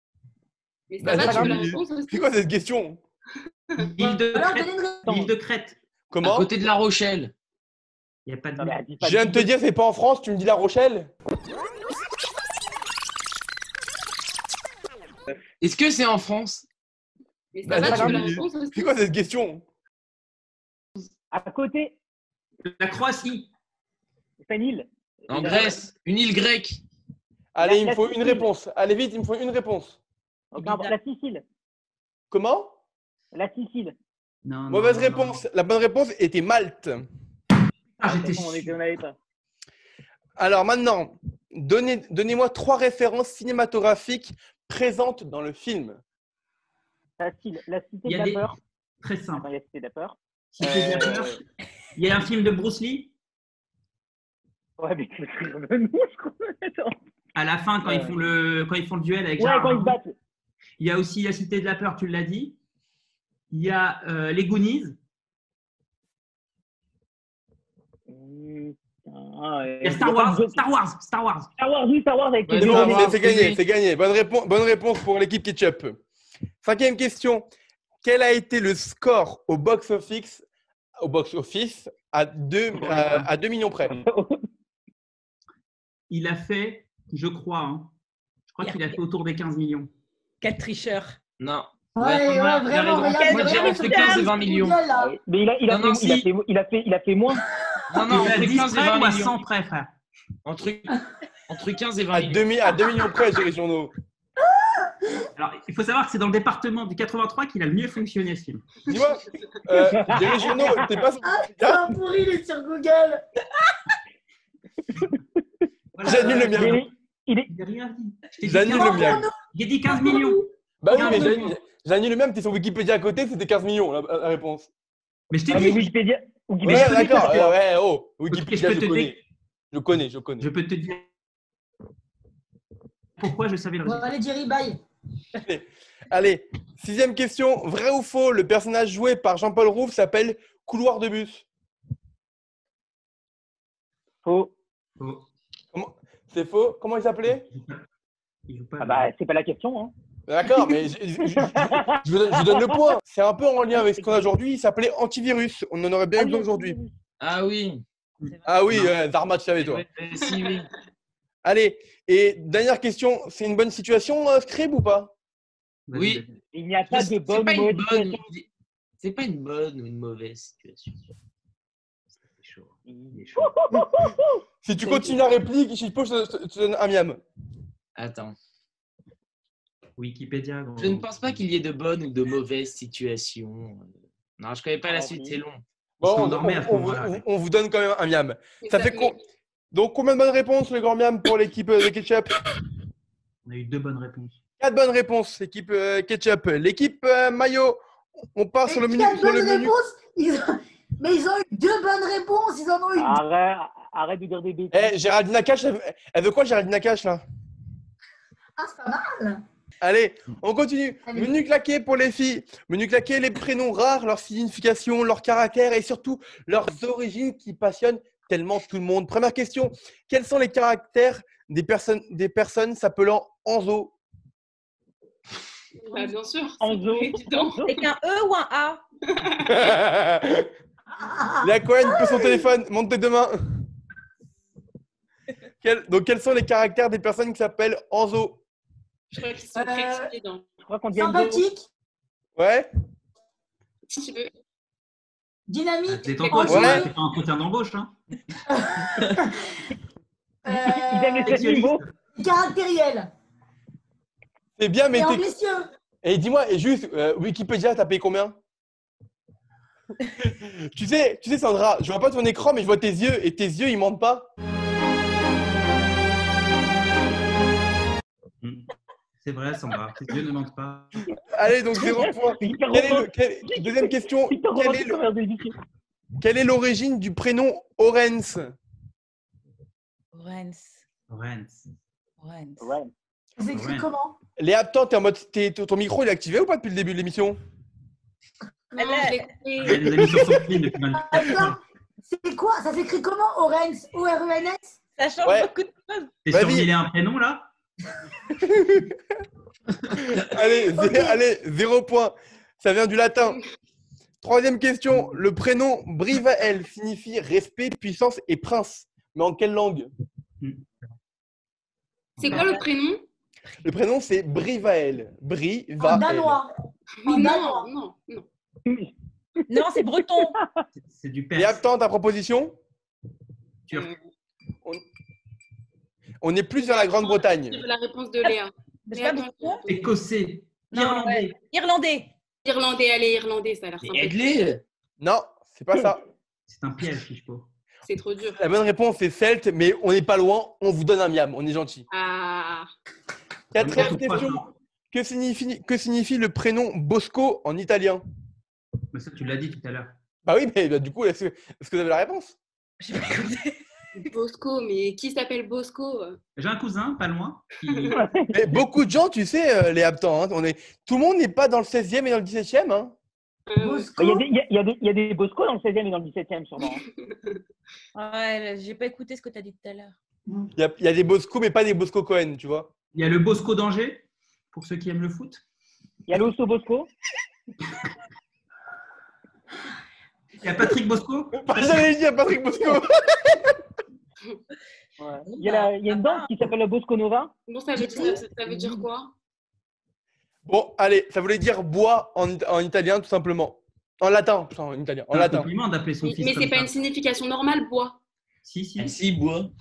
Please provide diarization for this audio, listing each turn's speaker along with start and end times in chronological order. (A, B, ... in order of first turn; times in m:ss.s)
0:00.9-0:02.3 A
0:01.0-0:03.0 B
0:01.1-0:01.7 C
0:03.8-0:05.8 D
0:04.0-0:05.2 E
0:06.1-0:06.5 B
0:06.2-0:07.3 F
0:08.3-0:08.8 D
0:08.6-0:09.5 C
0:09.0-0:11.1 B
0:15.6-0:16.6 F
0:17.5-0:18.9 A
0:17.6-0:19.6 B
0:17.8-0:18.2 C
0:21.3-0:22.0 C
0:22.6-0:23.5 D
0:24.4-0:25.9 C
0:25.3-0:26.8 F
0:27.6-0:30.0 B
0:27.6-0:28.5 C
0:30.5-0:31.4 C
0:30.6-0:30.9 G
0:32.3-0:32.8 B
0:33.3-0:34.0 C
0:34.4-0:35.4 D
0:34.7-0:37.0 B
0:38.0-0:38.7 D
0:38.0-0:39.2 C
0:40.4-0:46.0 B
0:47.2-0:48.6 C
0:48.1-0:48.5 D
0:49.0-0:49.5 D
0:49.4-0:51.4 C
0:50.5-0:51.4 D
0:52.0-0:53.1 D
0:54.8-0:57.0 C
0:57.4-1:00.0 D
0:57.8-0:58.2 C
0:59.4-1:00.1 C
1:00.8-1:02.6 D
1:03.5-1:05.0 D
1:08.1-1:10.6 C
1:09.8-1:11.5 D
1:11.6-1:13.2 C
1:12.5-1:13.6 F
1:12.6-1:16.0 B
1:16.6-1:17.5 B
1:18.0-1:20.4 B
1:21.0-1:23.9 B
1:22.7-1:23.3 D
1:23.9-1:24.4 C
1:26.1-1:27.9 D
1:28.5-1:29.9 D
1:28.6-1:29.0 G
1:30.4-1:31.2 G
1:31.4-1:34.8 F
1:32.0-1:35.1 E
1:33.1-1:34.4 G
1:35.0-1:37.4 C
1:35.7-1:36.3 F
1:37.9-1:39.4 F
1:38.1-1:39.9 D
1:40.4-1:41.0 F
1:41.5-1:42.4 F
1:42.1-1:43.9 B
1:44.4-1:45.3 E
1:45.4-1:48.6 D
1:48.9-1:52.0 B
1:49.8-1:50.9 C
1:51.2-1:53.2 E
1:56.0-1:56.8 D
1:56.0-1:56.8 B
1:56.5-1:57.5 C
1:57.5-2:01.6 D
1:58.4-1:59.3 B
1:58.7-1:59.3 E
1:59.9-2:01.4 E
2:00.8-2:04.7 B
2:05.3-2:05.9 D
2:05.5-2:07.5 C
2:06.6-2:09.2 B
2:06.6-2:07.3 D
2:08.3-2:09.2 D
2:09.7-2:10.5 B
2:10.4-2:11.1 D
2:13.2-2:14.1 D
2:13.8-2:14.8 E
2:15.4-2:21.5 B
2:24.2-2:24.5 C
2:25.7-2:27.5 B
2:27.3-2:27.8 D
2:28.5-2:29.1 D
2:28.8-2:29.9 C
2:30.3-2:36.8 B
2:31.2-2:32.8 C
2:33.8-2:34.2 C
2:36.2-2:36.9 C
2:37.2-2:37.8 F
2:38.4-2:39.8 B
2:39.6-2:40.7 F
2:41.4-2:45.1 B
2:45.9-2:46.4 D
2:45.9-2:46.2 F
2:46.5-2:48.2 C
2:46.9-2:48.5 F
2:49.0-2:51.0 F
2:52.4-2:53.5 D
2:52.9-2:55.2 C
2:54.6-2:57.2 B
2:58.0-2:58.4 F
3:00.0-3:01.4 D
3:00.8-3:05.6 F
3:04.9-3:05.4 C
3:06.0-3:09.2 B
3:06.0-3:07.2 D
3:08.6-3:09.2 A
3:09.7-3:12.3 B
3:13.5-3:14.4 D
3:14.6-3:17.8 B
3:18.4-3:19.7 B
3:18.7-3:23.2 E
3:23.0-3:24.9 C
3:24.7-3:27.2 B
3:28.6-3:29.4 E
3:29.8-3:43.9 B
3:31.1-3:31.3 E
3:45.8-3:47.7 A
3:46.6-3:47.8 C
3:47.6-3:48.8 G
3:49.1-3:49.7 A
3:49.4-3:50.5 B
3:51.0-3:52.4 E
3:51.4-3:53.4 B
3:55.6-3:58.4 B
3:59.1-4:00.4 A
3:59.6-4:00.1 E
4:00.6-4:01.4 C
4:01.0-4:01.7 E
4:02.4-4:02.7 B
4:03.9-4:04.3 A
4:05.5-4:06.9 E
4:05.9-4:07.9 D
4:06.4-4:06.9 B
4:08.5-4:09.4 E
4:10.5-4:11.6 E
4:10.8-4:11.8 C
4:11.2-4:11.9 D
4:12.2-4:13.1 E
4:14.6-4:15.3 B
4:14.9-4:15.7 E
4:16.0-4:18.4 B
4:20.2-4:24.3 B
4:28.4-4:28.7 D
4:29.2-4:31.0 D
4:31.3-4:35.0 B
4:31.8-4:35.5 C
4:36.2-4:38.6 B
4:40.1-4:40.8 G
4:41.1-4:41.6 D
4:42.2-4:42.7 G
4:42.6-4:42.9 C
4:43.4-4:44.2 E
4:43.5-4:43.9 D
4:44.4-4:47.4 B
4:48.8-4:50.0 A
4:48.8-4:49.3 G
4:49.6-4:51.6 D
4:49.8-4:50.6 B
4:50.9-4:54.8 E
4:55.0-4:56.2 G
4:55.2-4:55.5 B
4:56.3-4:57.5 D
4:56.3-4:56.7 B
4:58.4-4:59.0 B
5:00.0-5:03.4 B
5:00.7-5:01.2 E
5:04.2-5:09.9 B
5:12.2-5:13.0 A
5:12.2-5:12.5 D
5:12.3-5:12.7 G
5:13.6-5:16.4 B
5:15.8-5:16.5 E
5:17.0-5:18.3 A
5:17.1-5:17.7 E
5:18.7-5:18.9 C
5:19.5-5:20.4 G
5:19.5-5:20.6 C
5:20.8-5:21.6 D
5:21.4-5:22.6 B
5:26.2-5:27.6 B
5:26.6-5:29.9 A
5:28.9-5:29.6 G
5:29.7-5:31.4 D
5:30.7-5:32.1 G
5:32.4-5:34.4 A
5:33.8-5:34.6 F
5:35.0-5:36.0 B
5:36.5-5:37.5 D
5:37.9-5:38.4 A
5:38.4-5:41.9 B
5:41.9-5:42.7 A
5:43.5-5:48.0 B
5:43.6-5:44.5 D
5:48.9-5:49.9 D
5:50.3-5:52.4 B
5:52.8-5:53.6 G
5:54.1-5:56.2 A
5:56.4-5:58.0 D
5:57.7-5:58.0 A
5:57.9-5:58.5 C
5:58.3-6:03.0 B
6:03.5-6:03.9 A
6:03.6-6:04.2 E
6:04.0-6:06.8 C
6:07.1-6:07.4 A
6:08.0-6:10.0 G
6:10.6-6:12.7 B
6:12.9-6:15.4 D
6:16.1-6:16.9 C
6:20.4-6:21.9 D
6:21.4-6:23.6 B
6:25.0-6:27.3 C
6:25.3-6:26.4 G
6:27.5-6:29.1 A
6:27.8-6:28.2 E
6:30.5-6:35.5 B
6:35.1-6:36.7 D
6:36.0-6:38.0 A
6:38.4-6:39.1 D
6:38.8-6:39.5 F